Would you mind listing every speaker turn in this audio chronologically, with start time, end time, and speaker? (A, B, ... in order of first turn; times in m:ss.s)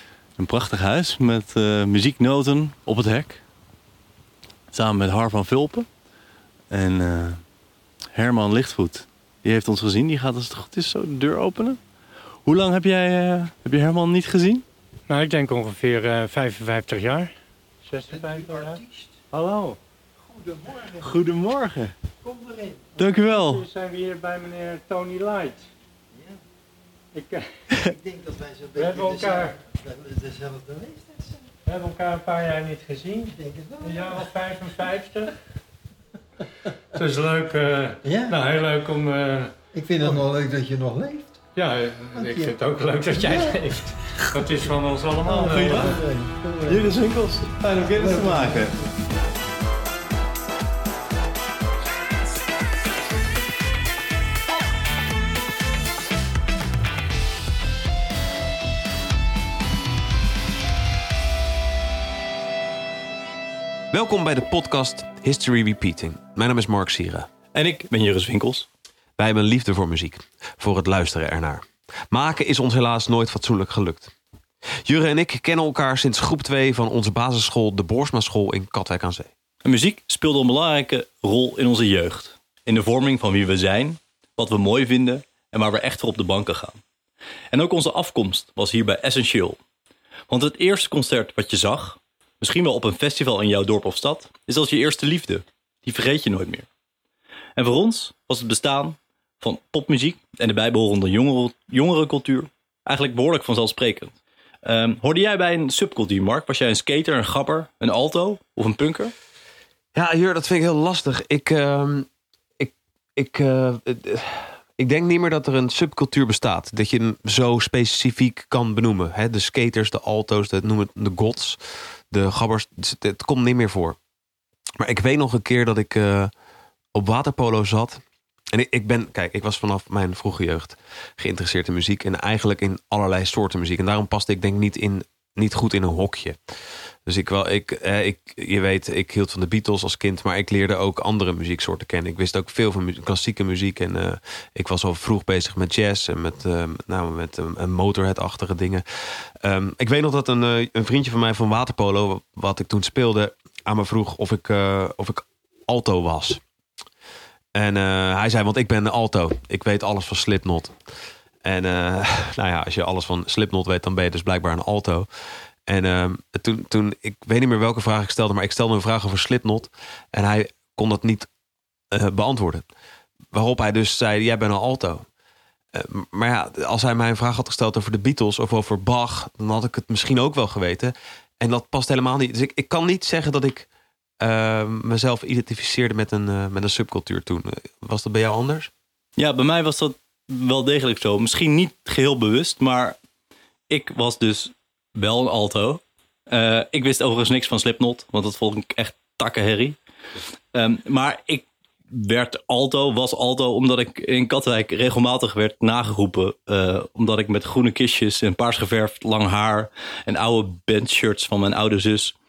0:00.4-0:03.4 A
0:04.7-0:05.9 A
0:06.7-0:07.4 A
0:08.1-0:11.8 A
0:12.4-0:14.6 A
0:15.1-0:17.3 B
0:17.8-0:19.8 B
0:18.1-0:19.1 C
0:20.3-0:21.0 C
0:21.0-0:21.9 A
0:22.2-0:22.8 C
0:23.0-0:23.6 A
0:23.2-0:25.6 B
0:27.1-0:27.6 B
0:27.8-0:31.3 C
0:28.8-0:29.6 B
0:31.6-0:35.3 B
0:33.4-0:34.1 C
0:36.9-0:39.5 B
0:38.0-0:38.4 C
0:39.7-0:41.3 C
0:41.5-0:46.1 B
0:42.1-0:42.5 C
0:43.1-0:43.5 C
0:45.3-0:46.0 A
0:45.3-0:46.8 C
0:46.6-0:48.7 A
0:47.8-0:48.7 C
0:48.2-0:48.5 D
1:03.9-1:07.3 D
1:07.5-1:08.7 A
1:09.2-1:14.1 D
1:14.8-1:19.3 D
1:19.6-1:26.8 A
1:27.5-1:29.6 A
1:30.3-1:36.7 A
1:37.6-1:49.1 A
1:49.9-1:52.1 D
1:52.6-2:01.6 D
2:02.1-2:04.0 D
2:04.8-2:06.3 D
2:06.9-2:16.4 D
2:17.0-2:36.4 D
2:37.5-2:40.8 D
2:41.4-2:45.1 D
2:45.7-2:51.3 D
2:51.9-2:52.6 D
2:53.3-2:55.0 D
2:55.7-3:03.7 D
3:04.2-3:08.7 D
3:09.2-3:13.0 A
3:13.7-3:19.8 A
3:20.5-3:32.2 A